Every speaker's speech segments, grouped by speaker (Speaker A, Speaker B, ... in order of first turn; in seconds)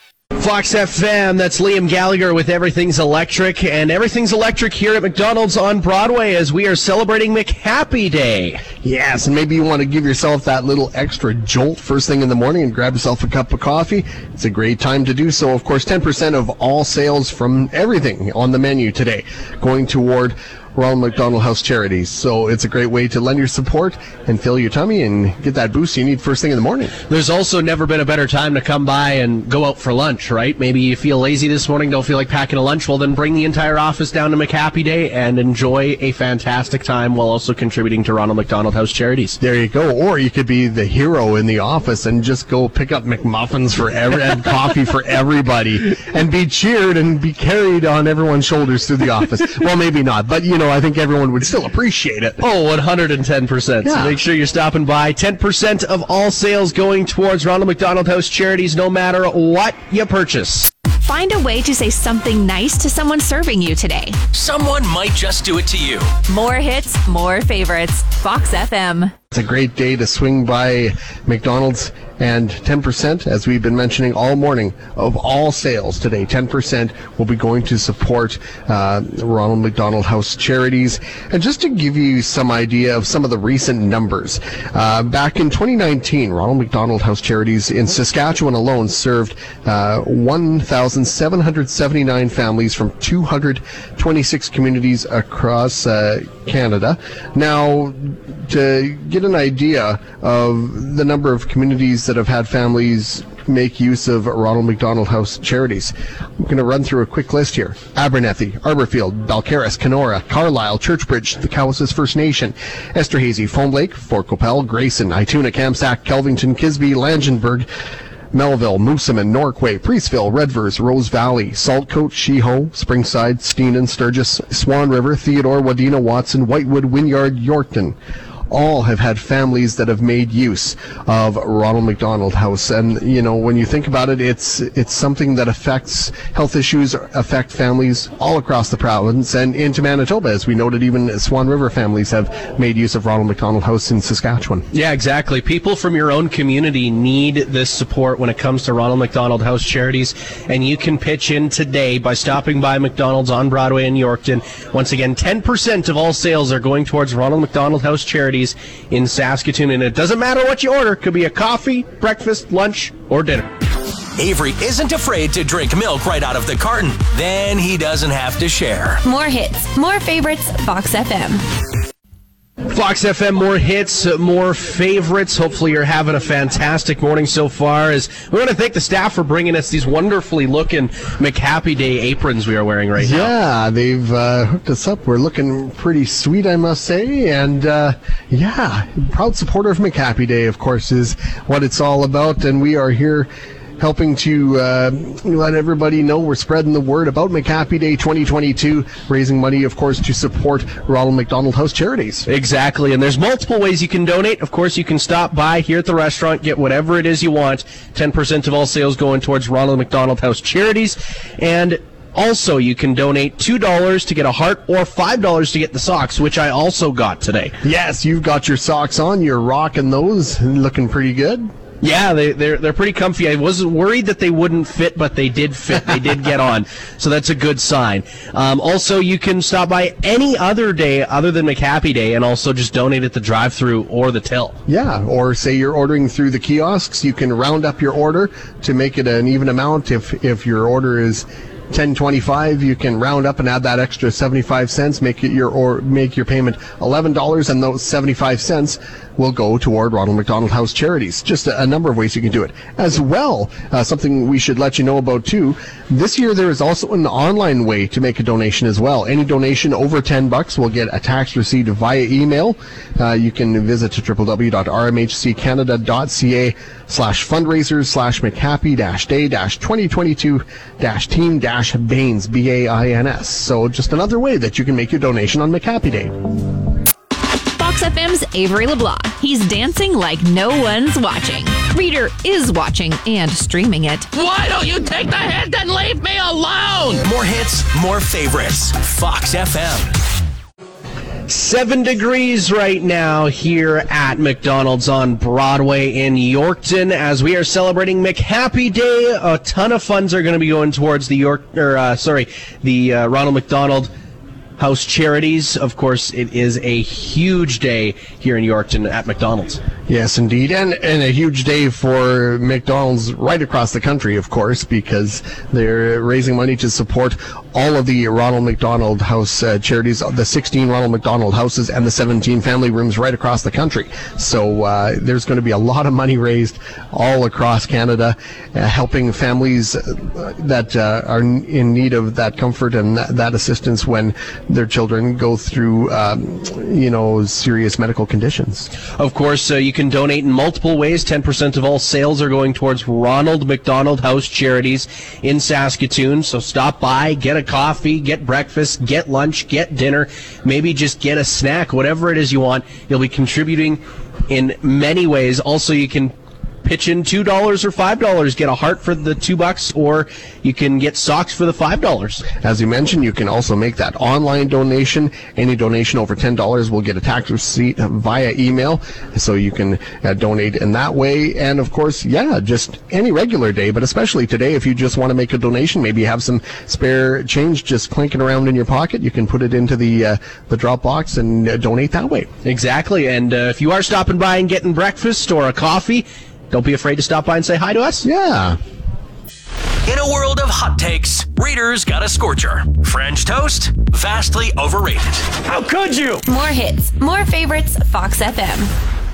Speaker A: 0.4-8.6, 27.1-39.4, 52.4-60.7, 144.7-163.5, 172.7-183.3, 202.2-217.6, 221.8-234.6, 291.3-303.9, 304.6-309.6, 339.0-356.1, 356.6-362.2, 382.4-388.1
Speaker B: 8.8-26.9, 39.4-52.4, 53.8-54.2, 69.3-117.7, 118.3-128.0, 128.5-144.7, 183.0-202.2, 217.6-221.5, 234.7-276.1, 309.9-338.7, 362.4-382.3, 388.0-388.6
Speaker C: 61.0-64.2, 66.3-69.1, 277.6-284.1
Speaker D: 64.3-66.1, 164.2-169.0, 287.0-289.9, 389.8-396.1
Speaker E: 169.0-171.4, 396.2-398.7
Speaker F: 284.1-287.0